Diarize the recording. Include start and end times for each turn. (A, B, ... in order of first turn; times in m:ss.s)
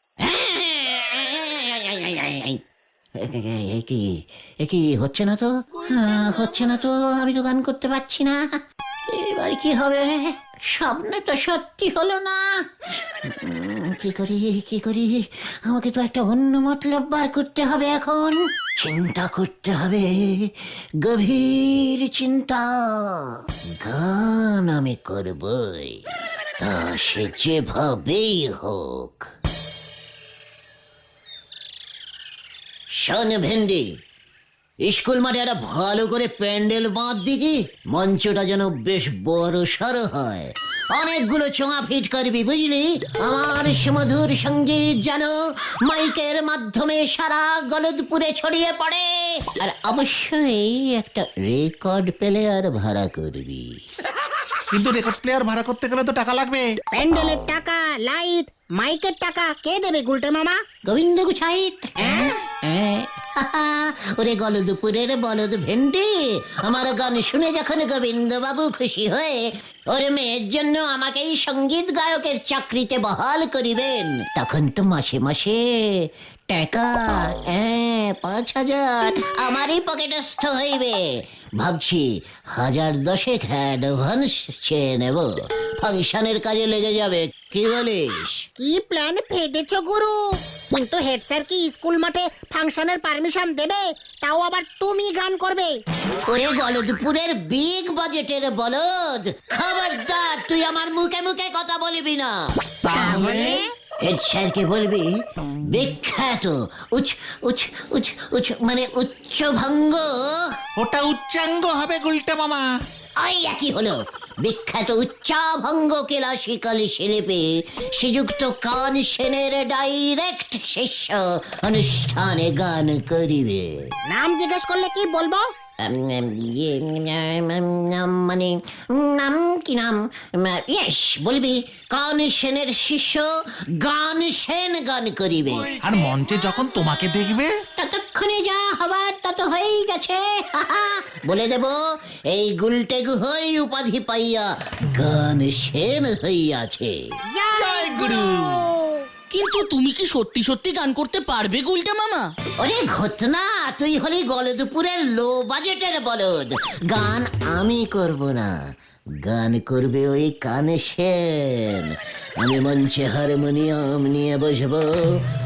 0:00.2-0:02.6 A
0:03.2-0:08.5 A
0:09.1-0:12.5 A
0:13.3-0:26.0 A
0:26.6-0:29.3 A
0:33.0-0:33.9 A
0:34.9-0:45.3 A
0:45.9-0:53.7 A
0:54.7-0:56.7 B
0:56.9-1:00.6 C
1:00.9-1:06.1 A
1:02.0-1:02.3 C
1:06.6-1:28.5 A
1:28.6-1:35.8 C
1:36.3-1:42.3 A
1:42.8-1:43.6 B
1:43.0-1:43.7 C
1:44.0-1:50.4 A
1:50.8-1:52.6 B
1:53.2-2:03.8 A
2:04.1-2:05.5 C
2:05.8-2:13.2 A
2:13.8-2:15.7 A
2:15.8-2:17.5 B
2:17.8-2:21.8 A
2:22.3-2:26.9 A
2:27.3-2:29.1 C
2:27.5-2:28.6 D
2:29.3-2:32.3 D
2:32.6-2:38.5 A
2:39.2-2:45.0 A